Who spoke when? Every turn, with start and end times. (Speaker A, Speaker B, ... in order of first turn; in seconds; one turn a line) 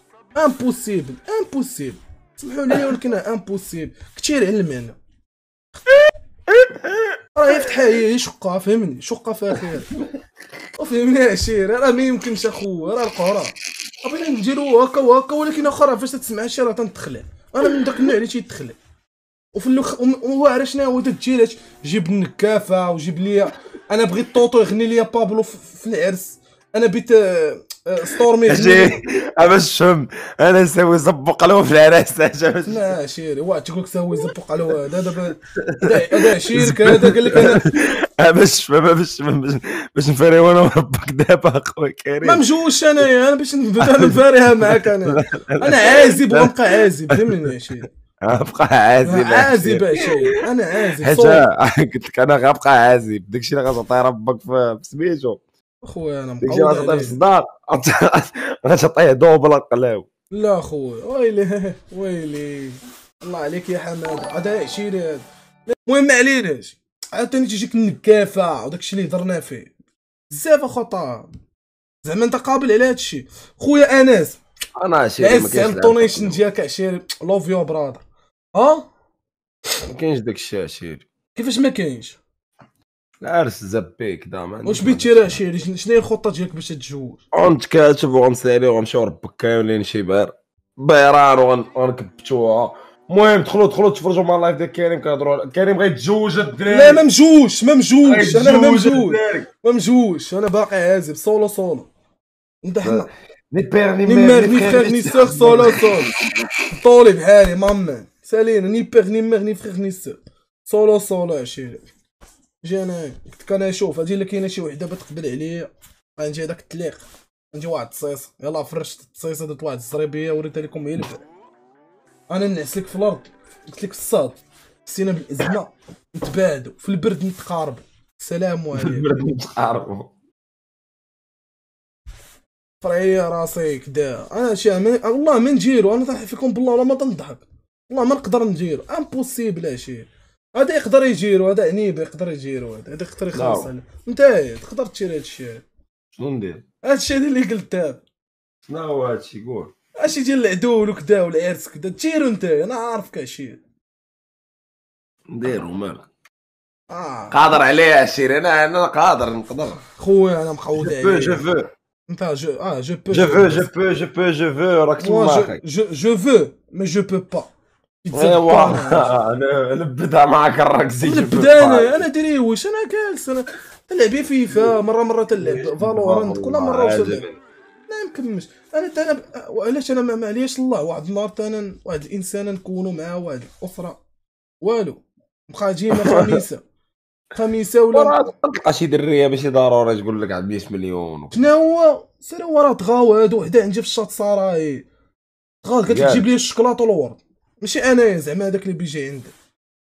Speaker A: 0.3-5.0
Speaker B: 6.5-7.8
Speaker A: 7.3-9.9
Speaker A: 10.8-18.8
Speaker A: 19.5-29.0
Speaker B: 28.5-32.9
Speaker A: 32.6-37.6
Speaker B: 35.6-42.4
Speaker A: 42.2-47.9
Speaker B: 43.8-47.4
Speaker B: 48.2-50.4
Speaker A: 49.0-51.5
Speaker B: 51.0-55.4
Speaker A: 55.8-57.2
Speaker B: 56.4-60.1
Speaker A: 60.3-69.7
Speaker A: 70.3-71.3
Speaker A: 72.0-74.4
Speaker B: 74.8-76.4
Speaker A: 75.2-78.0
Speaker A: 78.5-78.9
Speaker B: 79.9-81.1
Speaker A: 81.3-82.2
Speaker B: 83.2-85.1
Speaker A: 84.7-87.2
Speaker B: 87.3-97.0
Speaker A: 96.7-101.9
Speaker B: 98.0-99.5
Speaker A: 102.6-103.1
Speaker B: 102.8-106.5
Speaker A: 104.0-106.1
Speaker A: 106.7-111.9
Speaker A: 112.6-121.2
Speaker A: 122.3-129.1
Speaker B: 128.7-130.1
Speaker A: 132.8-145.6
Speaker B: 143.3-143.7
Speaker B: 146.1-146.6
Speaker A: 146.8-148.0
Speaker B: 148.7-149.7
Speaker A: 150.0-153.6
Speaker B: 155.3-156.1
Speaker A: 156.9-157.6
Speaker B: 157.3-159.8
Speaker A: 159.9-161.5
Speaker B: 160.8-161.7
Speaker A: 162.1-163.7
Speaker B: 163.1-165.6
Speaker A: 165.0-167.5
Speaker A: 168.0-169.1
Speaker B: 168.1-172.1
Speaker A: 171.0-177.3
Speaker B: 175.4-177.4
Speaker A: 177.9-184.0
Speaker A: 184.6-186.6
Speaker B: 185.9-186.4
Speaker A: 187.3-188.2
Speaker B: 187.9-191.5
Speaker A: 191.3-194.9
Speaker A: 195.6-199.3
Speaker B: 195.9-196.3